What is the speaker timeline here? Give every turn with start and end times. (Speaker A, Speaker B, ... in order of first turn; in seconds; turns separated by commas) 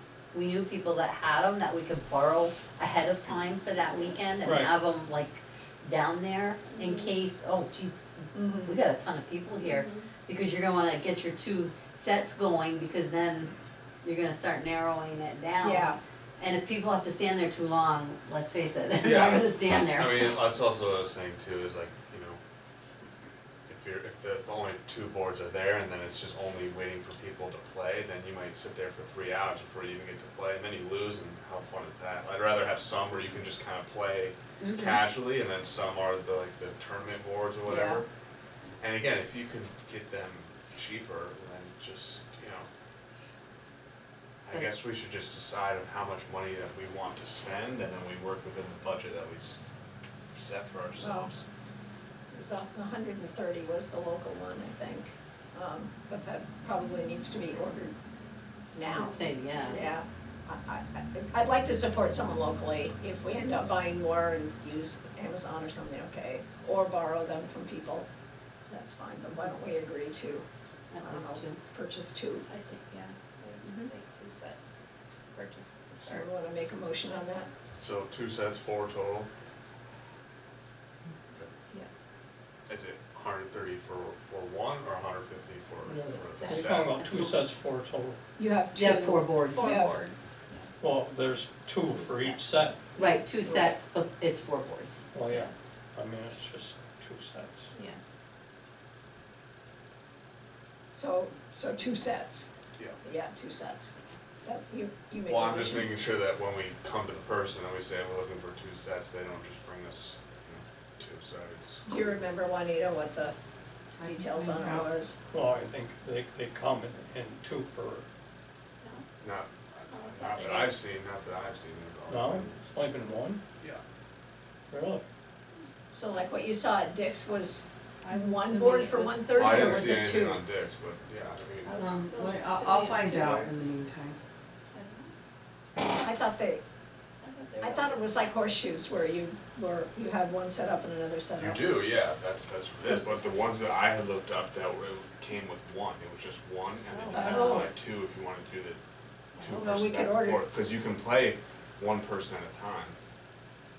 Speaker A: 0.3-20.4, Speaker B: 4.4-4.7, Speaker C: 6.7-7.2, Speaker D: 8.3-8.8, Speaker C: 9.6-10.1, Speaker D: 15.6-16.0, Speaker E: 19.0-22.4, Speaker E: 23.7-38.1, Speaker A: 34.6-35.0, Speaker D: 37.7-38.0, Speaker E: 38.8-42.7, Speaker E: 44.4-49.6, Speaker E: 50.3-51.5, Speaker D: 51.0-51.3, Speaker D: 52.3-58.0, Speaker D: 58.7-68.1, Speaker A: 58.9-59.9, Speaker D: 68.7-70.5, Speaker A: 70.9-71.6, Speaker D: 71.0-72.5, Speaker C: 72.5-76.3, Speaker A: 73.6-73.9, Speaker D: 76.0-77.5, Speaker E: 77.8-79.3, Speaker E: 82.7-87.0, Speaker B: 85.9-88.2, Speaker C: 86.2-86.8, Speaker D: 88.4-90.0, Speaker A: 88.7-89.8, Speaker C: 89.5-90.7, Speaker B: 90.8-92.8, Speaker C: 92.0-92.4, Speaker A: 93.0-95.0, Speaker D: 93.0-93.6, Speaker B: 95.1-97.7, Speaker C: 97.7-98.0, Speaker D: 100.9-102.5, Speaker D: 103.0-103.9, Speaker D: 104.4-105.9, Speaker E: 105.3-112.2, Speaker D: 111.9-113.3, Speaker F: 114.0-114.9, Speaker D: 114.0-115.1, Speaker B: 115.3-118.1, Speaker E: 119.2-122.6, Speaker C: 119.9-120.8, Speaker B: 122.1-123.4, Speaker B: 124.7-125.0, Speaker D: 125.9-130.4, Speaker F: 128.1-129.9, Speaker C: 128.2-129.5, Speaker E: 129.3-131.9, Speaker C: 131.6-133.7, Speaker F: 131.8-134.2, Speaker C: 134.7-135.2, Speaker D: 135.8-136.6, Speaker C: 137.2-138.7, Speaker D: 137.6-141.9, Speaker E: 141.4-148.8, Speaker C: 147.1-147.6, Speaker D: 147.1-147.7, Speaker E: 149.4-153.0, Speaker D: 149.5-150.5